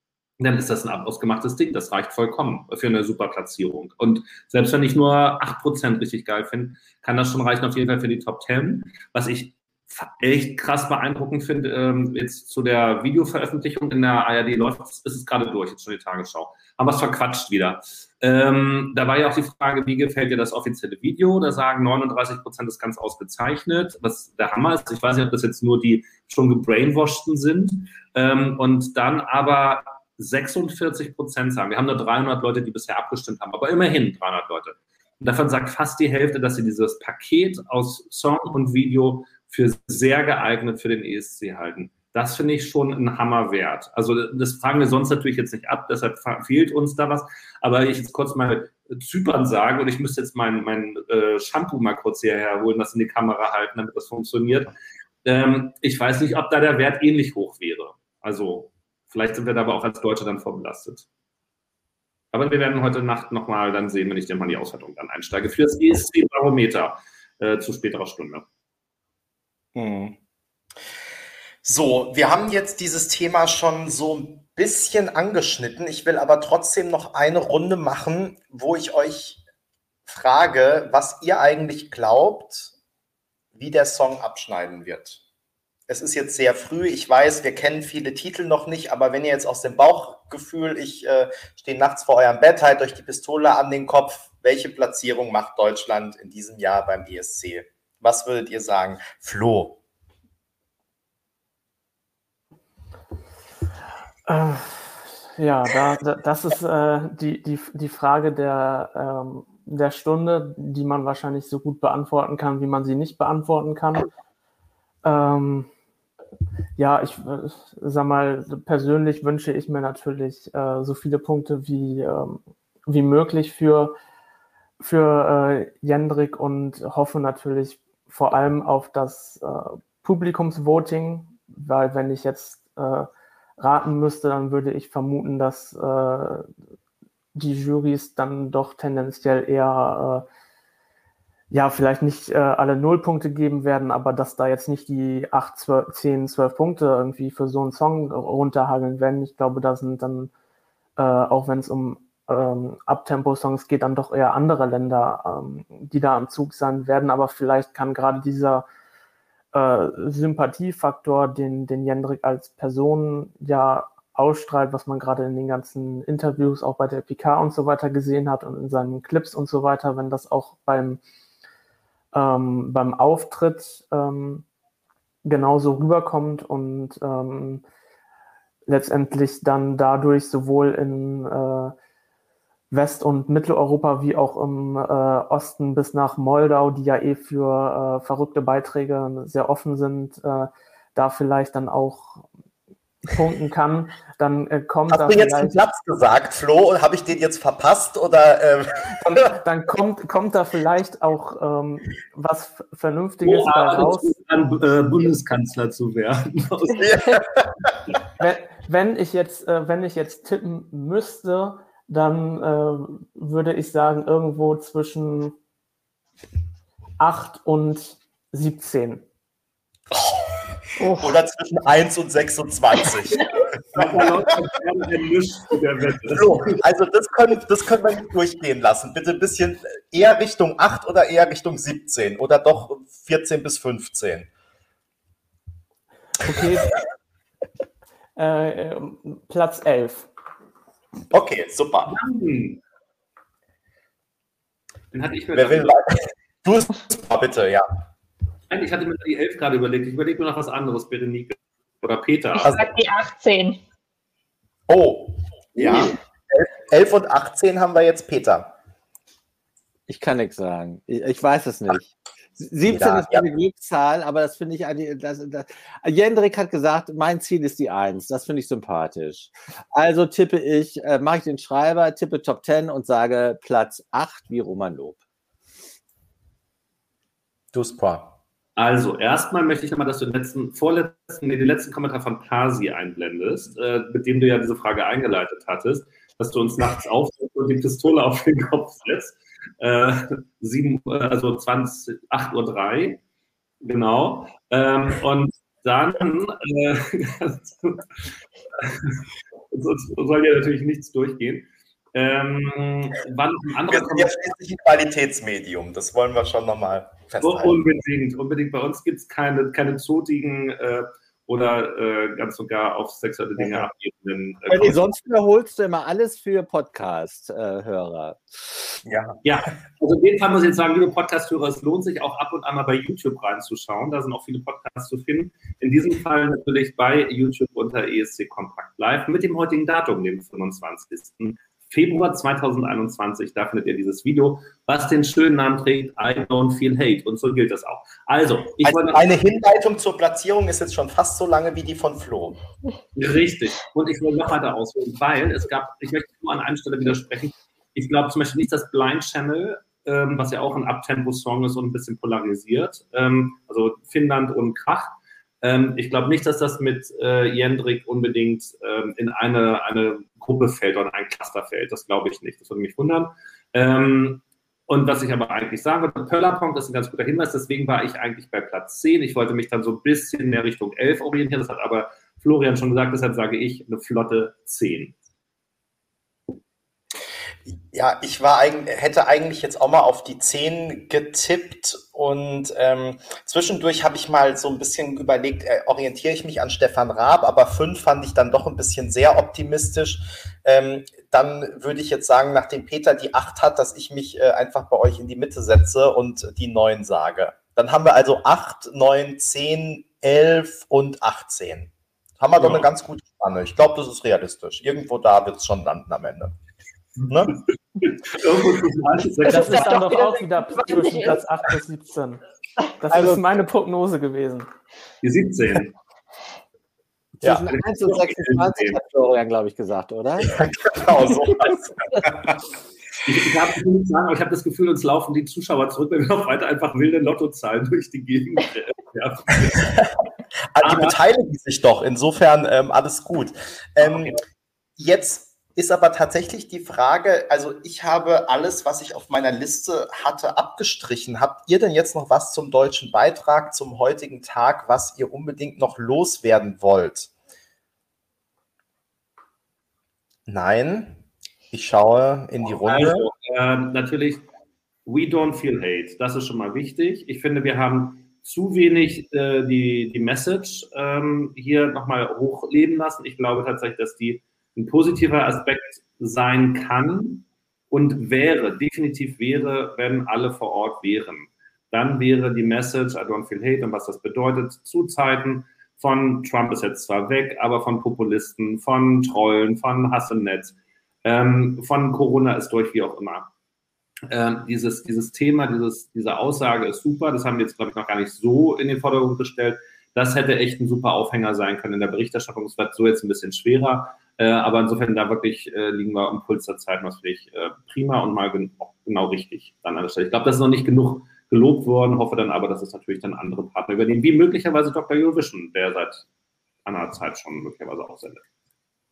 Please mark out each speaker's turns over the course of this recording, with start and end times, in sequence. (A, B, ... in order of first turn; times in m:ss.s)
0:00.4-0:54.7 A
0:55.2-1:01.1 A
1:02.3-1:08.4 A
1:09.8-1:10.2 B
1:11.6-1:19.4 B
1:20.1-1:22.7 B
1:23.5-1:25.2 B
1:25.9-1:39.8 B
1:44.3-1:54.1 C
1:55.0-1:55.7 C
1:56.8-2:03.9 C
2:04.8-2:16.5 C
2:17.3-2:20.2 C
2:21.5-2:30.3 C
2:31.0-2:38.6 C
2:39.5-2:51.0 C
2:52.1-2:54.5 C
2:55.2-2:57.6 C
2:58.7-3:01.7 C
3:02.7-3:12.3 C
3:13.0-3:15.6 C
3:14.9-3:19.4 B
3:19.3-3:24.2 C
3:23.2-3:27.2 A
3:26.8-3:27.7 B
3:28.2-3:35.4 C
3:37.0-3:39.0 C
3:39.9-3:44.1 B
3:43.7-3:46.5 A
3:46.1-3:54.3 B
3:56.2-3:56.8 C
3:58.2-4:00.1 C
4:01.1-4:02.0 B
4:01.9-4:02.6 A
4:04.9-4:05.8 A
4:05.3-4:07.6 B
4:08.5-4:12.6 A
4:12.3-4:13.6 D
4:12.4-4:12.7 B
4:14.7-4:18.5 B
4:15.6-4:15.9 A
4:19.9-4:35.0 E
4:22.7-4:23.2 B
4:37.5-4:38.1 B
4:38.6-4:53.0 A
4:53.6-5:04.2 A
5:03.7-5:07.6 B
5:07.2-5:14.8 A
5:13.4-5:13.7 B
5:14.5-5:18.2 E
5:18.8-5:19.2 B
5:19.2-5:39.1 A
5:38.6-5:42.4 B
5:43.0-6:15.0 A
6:17.5-6:46.4 B
6:42.4-6:42.7 A
6:47.1-6:47.4 B
6:47.9-6:49.7 A
6:49.2-6:52.2 C
6:49.3-6:51.2 D
6:52.8-6:54.5 C
6:55.0-6:55.7 A
6:57.2-7:00.4 E
6:57.5-6:58.8 A
7:00.2-7:02.4 B
7:03.0-7:09.9 A
7:10.5-7:14.2 B
7:10.6-7:11.0 A
7:13.8-7:14.2 A
7:14.8-7:27.1 B
7:30.3-7:33.1 B
7:32.4-7:34.2 A
7:34.9-8:03.3 A
8:04.1-8:26.0 A
8:26.6-8:28.2 A